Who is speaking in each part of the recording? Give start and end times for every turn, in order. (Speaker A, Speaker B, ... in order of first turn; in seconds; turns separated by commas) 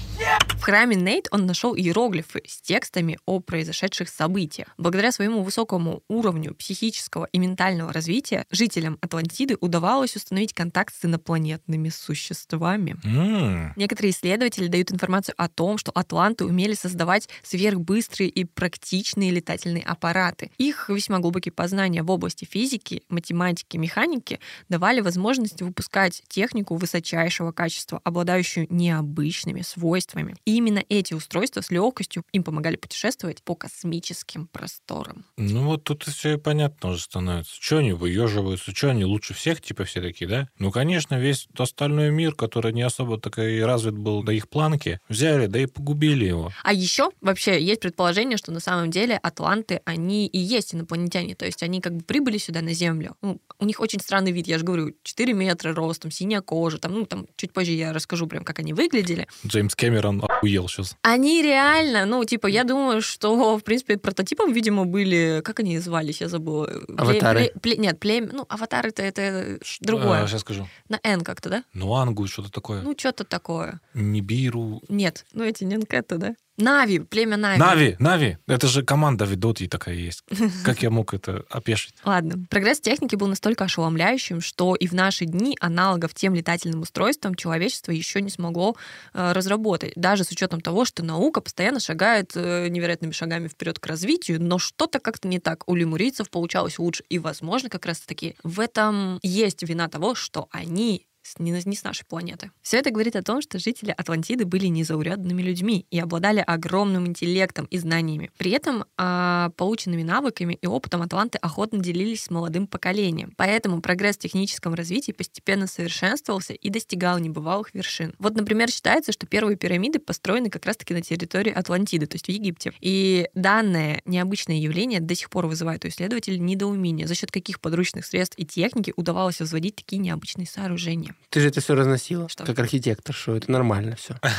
Speaker A: 0.5-13.0, Speaker B: 13.0-13.7, Speaker A: 13.7-35.2, Speaker B: 35.4-46.5, Speaker A: 46.6-59.3, Speaker B: 59.4-61.0, Speaker A: 61.0-70.3, Speaker C: 67.0-67.5, Speaker B: 69.8-70.7, Speaker A: 70.8-71.6, Speaker B: 71.7-72.9, Speaker A: 72.8-73.8, Speaker B: 73.9-74.8, Speaker A: 74.9-77.8, Speaker B: 77.5-81.9, Speaker A: 82.0-131.2, Speaker C: 131.3-134.2